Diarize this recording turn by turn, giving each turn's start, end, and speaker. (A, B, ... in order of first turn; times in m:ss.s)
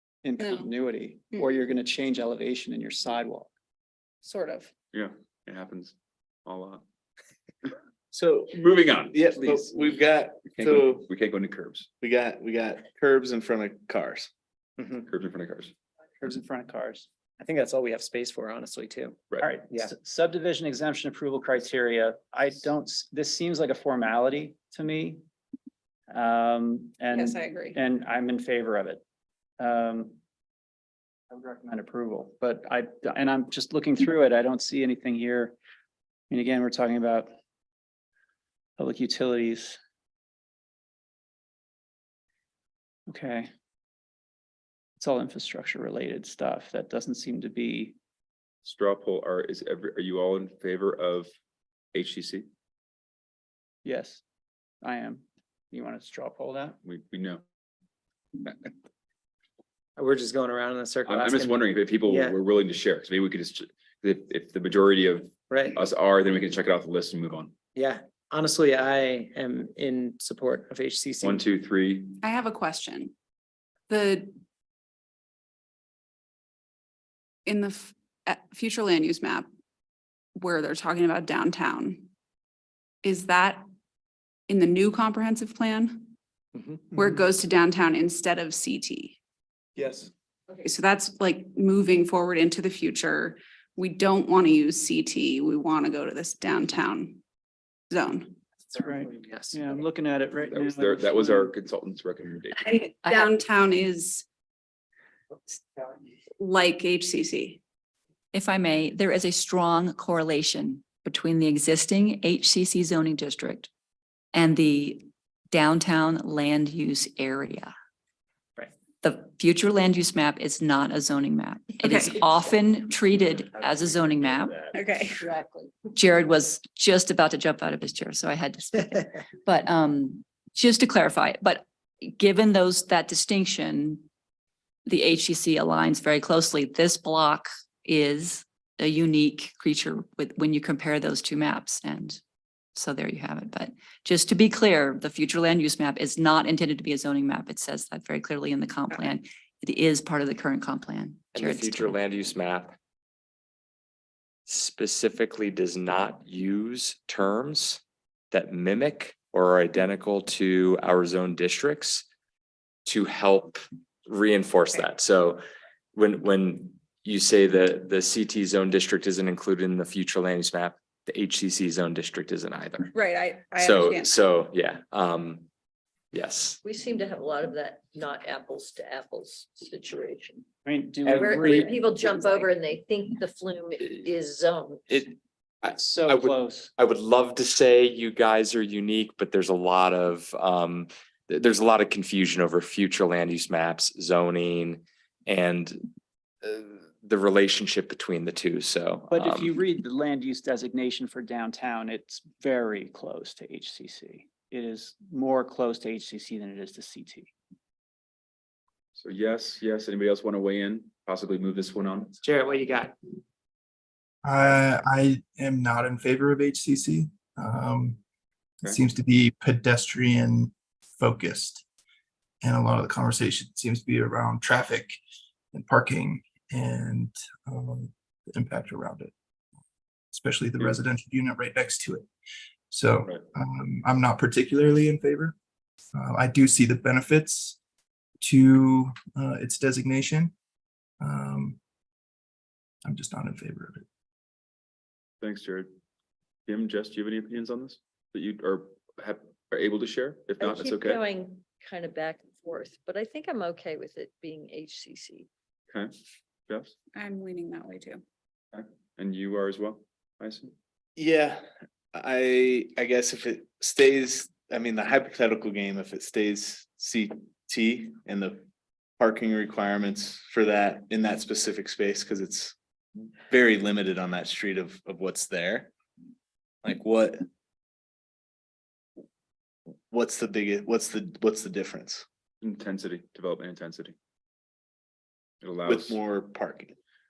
0:00.2-0:03.5 A
0:00.4-0:00.7 B
0:04.2-0:04.7 B
0:04.9-0:05.9 C
0:06.5-0:06.8 C
0:08.1-0:08.5 D
0:08.5-0:09.6 C
0:09.1-0:11.0 D
0:10.5-0:11.9 C
0:12.0-0:14.3 D
0:14.8-0:15.0 E
0:15.1-0:15.7 C
0:16.2-0:17.1 A
0:17.4-0:19.2 E
0:19.4-0:25.2 A
0:26.1-0:29.0 A
0:27.1-0:27.8 B
0:29.6-0:30.2 A
0:31.3-0:35.6 A
0:36.3-0:37.3 A
0:38.8-0:39.8 A
0:43.1-0:43.5 A
0:45.0-0:48.0 A
0:48.6-0:51.3 C
0:51.9-0:52.5 C
0:53.8-0:54.2 A
0:54.8-0:56.8 A
0:56.8-0:57.4 C
1:00.0-1:02.4 E
1:01.0-1:07.5 C
1:05.5-1:05.8 E
1:07.8-1:11.4 E
1:11.2-1:12.1 C
1:12.2-1:13.1 B
1:13.9-1:14.3 B
1:17.4-1:19.5 B
1:20.4-1:22.1 B
1:23.0-1:23.6 B
1:24.5-1:26.1 B
1:26.9-1:29.2 B
1:29.8-1:30.1 A
1:30.6-1:37.2 B
1:37.9-1:38.4 B
1:38.7-1:39.8 E
1:38.8-1:41.6 A
1:40.4-1:42.6 C
1:42.6-1:44.2 B
1:43.0-1:43.3 F
1:46.4-1:47.6 B
1:48.3-1:53.7 F
1:54.3-1:57.7 F
1:59.0-2:04.6 F
2:01.8-2:02.1 B
2:04.7-2:05.3 B
2:05.9-2:14.0 F
2:14.9-2:22.2 F
2:22.8-2:32.0 F
2:31.3-2:32.8 G
2:34.5-2:37.8 G
2:38.3-2:42.0 G
2:42.9-2:45.4 G
2:45.9-2:52.9 G
2:52.9-2:54.3 B
2:53.6-2:55.4 G
2:56.1-2:56.6 G
2:56.6-3:00.4 H
3:00.6-3:02.5 A
3:01.1-3:01.7 E
3:01.1-3:05.1 H
3:05.7-3:15.8 G
3:05.7-3:06.7 A
3:16.4-3:19.5 G
3:19.1-3:27.3 A
3:28.9-3:32.1 C
3:32.2-3:32.9 E
3:34.2-3:38.0 I
3:38.6-3:41.6 I
3:42.4-3:45.0 I
3:45.5-3:49.1 I
3:50.1-3:52.1 I
3:52.7-3:55.3 I
3:55.9-3:57.6 I
3:58.2-4:00.3 I
4:01.0-4:01.6 I
4:02.8-4:03.8 I
4:05.2-4:05.7 C
4:06.5-4:11.0 C
4:10.4-4:15.3 H
4:16.5-4:16.7 C
4:16.9-4:18.0 B
4:18.5-4:20.5 C
4:21.0-4:21.4 D
4:21.9-4:28.4 D
4:29.0-4:32.6 D
4:33.3-4:35.7 D
4:36.6-4:37.2 D
4:39.9-4:42.0 D
4:42.4-4:43.9 C
4:45.4-4:46.0 C
4:45.6-4:46.8 D